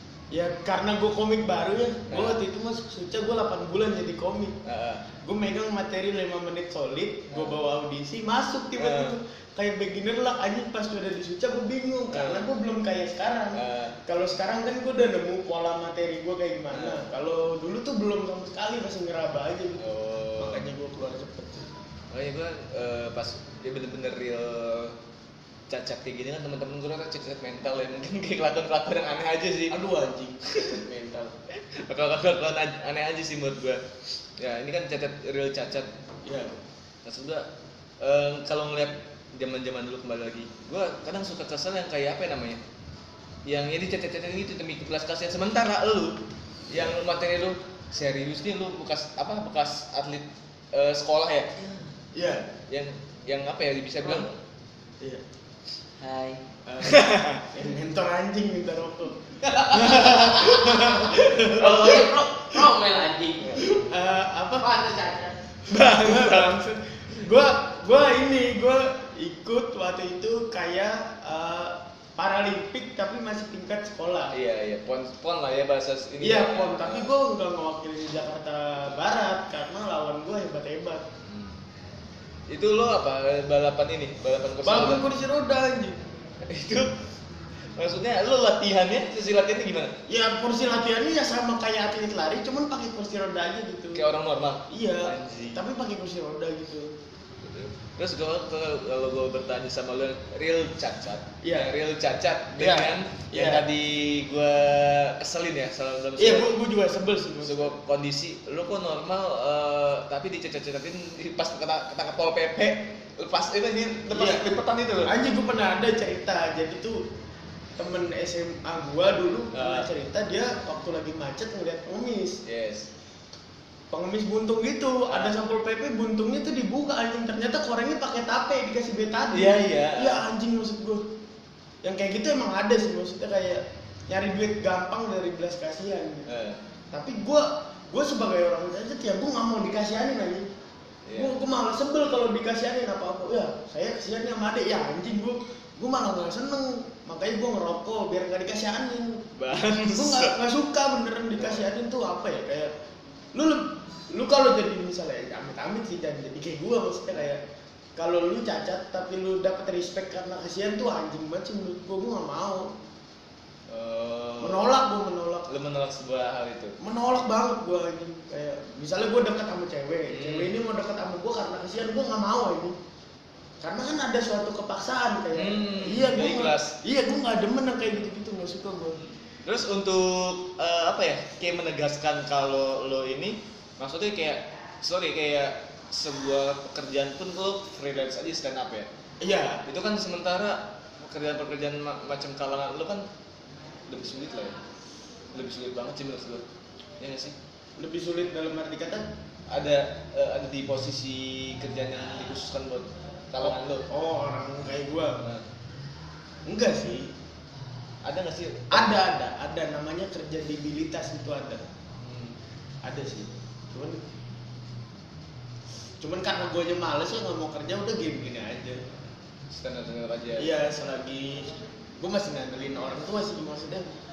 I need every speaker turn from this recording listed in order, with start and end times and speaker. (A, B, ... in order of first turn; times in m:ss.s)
0:00.3-0:04.6 A
0:02.1-0:02.4 B
0:04.6-0:05.0 B
0:05.2-0:19.9 A
0:07.3-0:07.6 B
0:08.8-0:09.2 B
0:12.1-0:12.5 B
0:13.5-0:14.0 B
0:16.7-0:17.1 B
0:19.8-0:20.7 B
0:20.4-0:21.7 A
0:22.1-0:25.0 B
0:25.7-0:29.8 B
0:29.7-0:31.4 A
0:31.5-0:33.8 B
0:34.4-0:35.9 B
0:36.2-0:36.5 A
0:37.0-0:37.5 B
0:38.0-0:42.6 B
0:43.5-0:46.2 B
0:46.7-0:51.8 B
0:46.7-0:47.0 A
0:52.1-0:52.5 A
0:52.7-0:54.4 B
0:56.0-0:56.4 C
0:56.6-1:02.7 A
0:56.8-0:57.5 B
0:59.5-1:02.2 B
1:01.6-1:03.7 C
1:03.5-1:04.8 A
1:04.6-1:05.4 C
1:05.7-1:07.3 B
1:05.7-1:14.4 A
1:14.3-1:17.1 B
1:16.2-1:21.0 A
1:21.3-1:21.6 B
1:22.5-1:25.1 B
1:24.6-1:26.0 A
1:26.5-1:26.9 B
1:27.8-1:29.9 B
1:30.1-1:34.0 A
1:33.9-1:35.7 B
1:34.7-1:36.9 A
1:37.4-1:46.6 B
1:41.4-1:41.7 A
1:42.6-1:43.7 A
1:46.2-1:47.8 A
1:47.4-1:55.1 B
1:54.1-1:54.5 A
1:55.0-1:57.0 A
1:57.8-2:02.4 A
1:59.5-1:59.9 B
2:02.4-2:02.9 B
2:03.9-2:11.0 A
2:05.1-2:05.4 B
2:09.3-2:10.2 B
2:11.8-2:16.3 A
2:16.3-2:16.6 B
2:16.9-2:20.5 A
2:21.1-2:21.4 B
2:21.2-2:29.2 A
2:29.4-2:30.4 B
2:29.9-2:32.7 A
2:31.4-2:31.6 B
2:33.3-2:37.4 A
2:38.0-2:42.7 A
2:43.7-2:44.7 B
2:44.4-2:45.5 A
2:45.5-2:46.8 B
2:46.8-2:52.8 A
2:50.1-2:50.6 B
2:53.6-2:59.0 A
2:55.3-2:56.8 B
2:59.4-3:08.9 B
3:09.2-3:09.6 A
3:09.6-3:13.0 B
3:13.9-3:14.6 B
3:15.3-3:16.4 B
3:17.0-3:17.4 B
3:17.8-3:19.0 A
3:19.5-3:23.8 B
3:23.4-3:25.2 A
3:26.5-3:27.1 A
3:28.0-3:28.9 B
3:28.7-3:31.6 A
3:32.0-3:32.4 B
3:32.8-3:34.0 A
3:36.0-3:38.8 A
3:39.5-3:40.5 B
3:40.4-3:43.8 A